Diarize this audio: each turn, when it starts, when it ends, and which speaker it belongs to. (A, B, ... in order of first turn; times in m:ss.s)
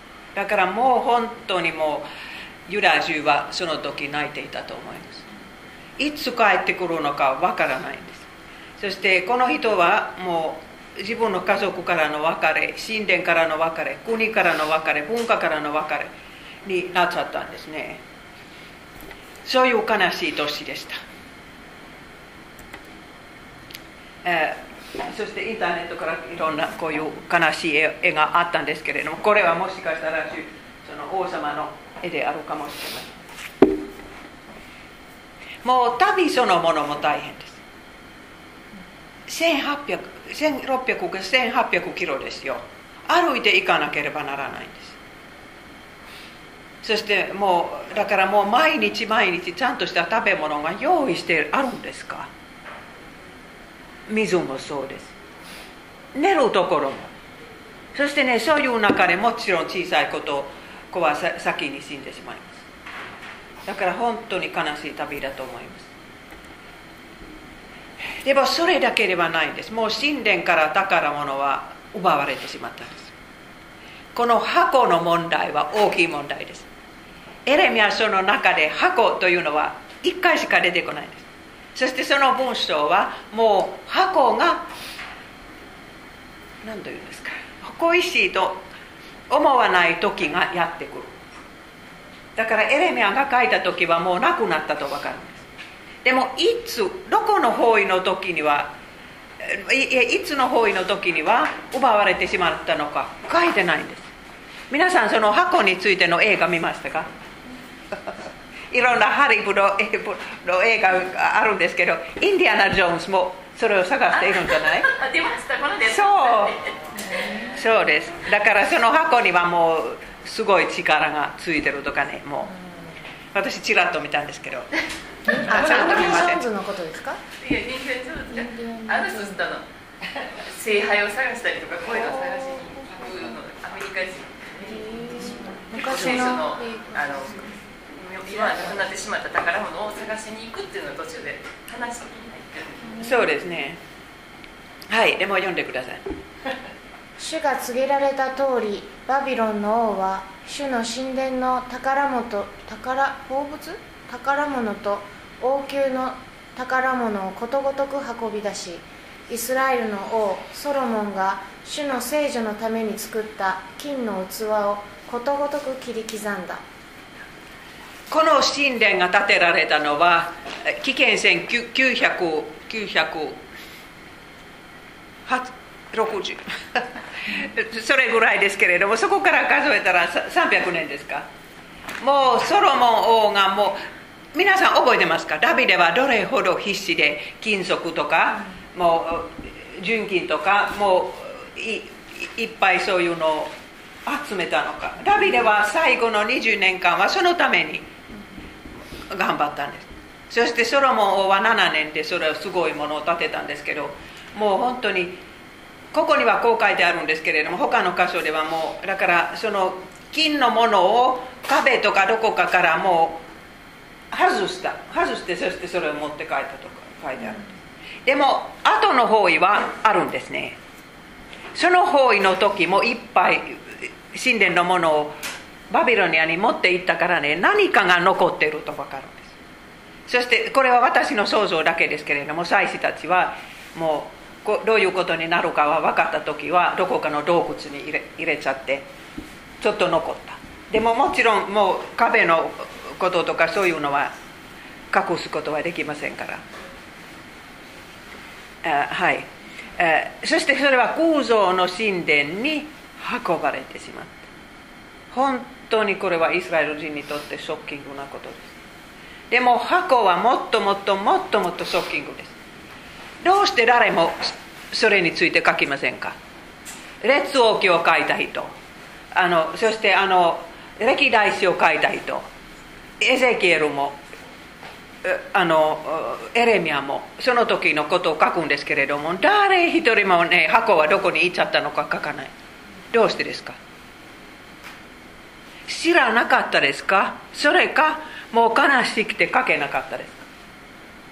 0:00.3-0:02.1 A
0:02.7-0:05.2 A
0:06.0-0:08.3 A
0:08.8-0:16.1 A
0:16.6-0:18.0 A
0:19.4-0:21.0 A
0:24.2-0:33.1 A
0:35.6-0:37.6 A
0:39.3-0:45.0 A
0:46.8-0:52.3 A
0:54.1-0:55.1 A
0:56.1-0:57.1 A
0:57.9-1:02.6 A
1:03.6-1:05.9 A
1:08.2-1:13.1 A
1:14.1-1:16.7 A
1:17.4-1:24.7 A
1:26.6-1:28.6 A
1:29.3-1:31.1 A
1:32.4-1:35.4 A
1:36.0-1:38.7 A
1:39.4-1:44.1 A
1:44.7-1:47.1 A
1:48.7-1:54.9 A
1:54.9-1:56.8 B
1:55.8-1:56.6 A
1:57.5-2:02.5 A
2:03.3-2:04.7 A
2:05.3-2:07.2 C
2:05.3-2:06.4 A
2:07.4-2:09.6 B
2:08.3-2:09.4 C
2:10.2-2:17.4 B
2:11.9-2:12.9 C
2:14.6-2:17.5 C
2:17.9-2:23.0 B
2:23.0-2:23.8 A
2:24.9-2:26.0 A
2:27.2-2:46.6 C
2:48.1-2:53.4 A
2:55.2-3:01.3 A
3:02.0-3:03.8 A
3:04.3-3:13.5 A
3:14.0-3:17.9 A
3:19.1-3:25.2 A
3:25.9-3:33.2 A
3:34.1-3:37.5 A
3:38.0-3:40.6 A
3:41.5-3:45.1 A
3:45.7-3:49.3 A
3:50.1-3:58.9 A
3:59.6-4:04.1 A
4:04.9-4:06.4 A
4:08.6-4:14.3 A
4:15.1-4:18.5 A
4:19.3-4:22.3 A
4:23.2-4:26.2 A
4:27.0-4:28.5 A
4:29.1-4:32.2 A
4:33.0-4:34.0 A
4:35.0-4:42.3 A
4:42.9-4:43.6 A
4:45.7-4:50.2 A